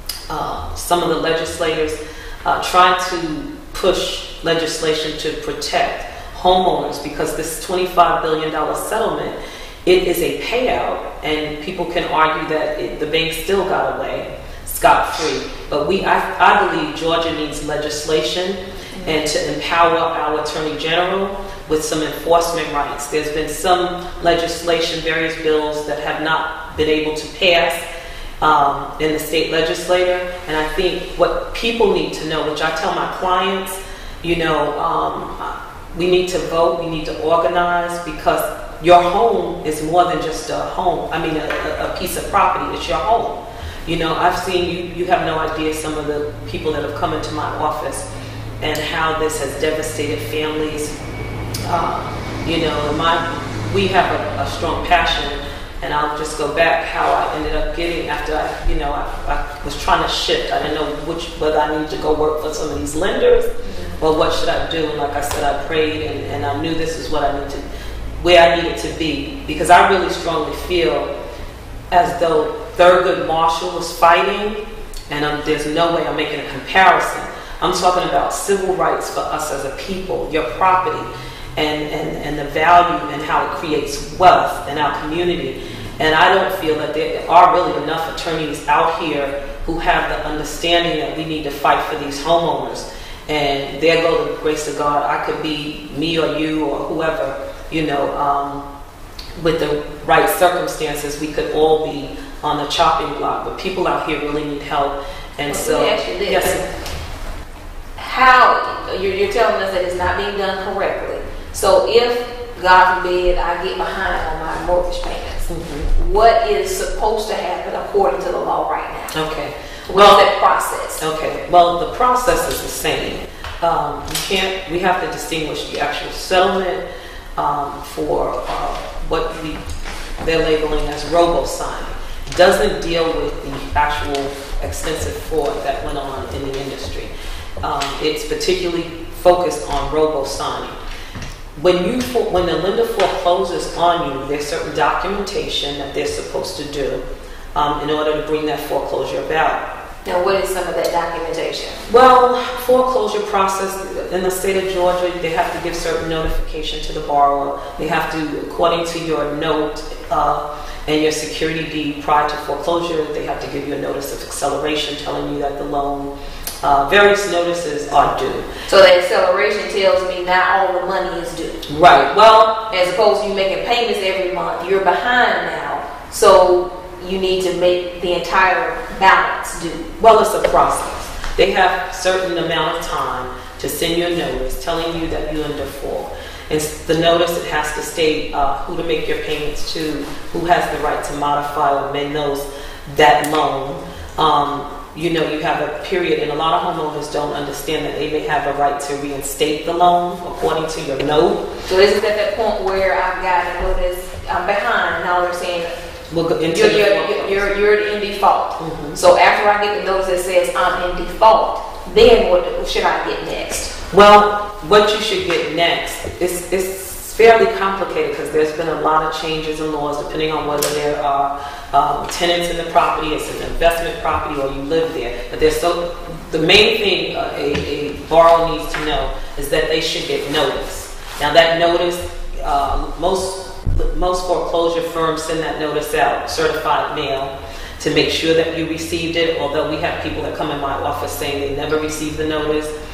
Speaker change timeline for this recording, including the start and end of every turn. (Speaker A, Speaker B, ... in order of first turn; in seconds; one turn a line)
Speaker A: 0.3-27.8
Speaker B: 18.9-19.2
Speaker A: 28.4-48.0
Speaker A: 48.6-50.9
Speaker A: 51.6-67.6
Speaker B: 63.6-64.0
Speaker A: 68.2-71.1
Speaker A: 71.9-98.7
Speaker A: 99.3-106.6
Speaker B: 105.5-106.7
Speaker B: 108.0-119.1
Speaker A: 115.5-115.9
Speaker A: 119.1-120.3
Speaker B: 119.9-121.0
Speaker A: 121.0-126.8
Speaker A: 127.3-129.6
Speaker A: 130.2-140.8
Speaker A: 141.6-147.0
Speaker A: 147.5-149.6
Speaker B: 150.0-151.8
Speaker A: 151.9-168.5
Speaker B: 168.7-171.6
Speaker A: 171.7-172.6
Speaker B: 172.7-179.9
Speaker A: 180.0-201.4
Speaker B: 201.7-205.7
Speaker A: 206.1-207.5
Speaker B: 206.5-213.7
Speaker A: 208.6-209.0
Speaker A: 213.9-242.7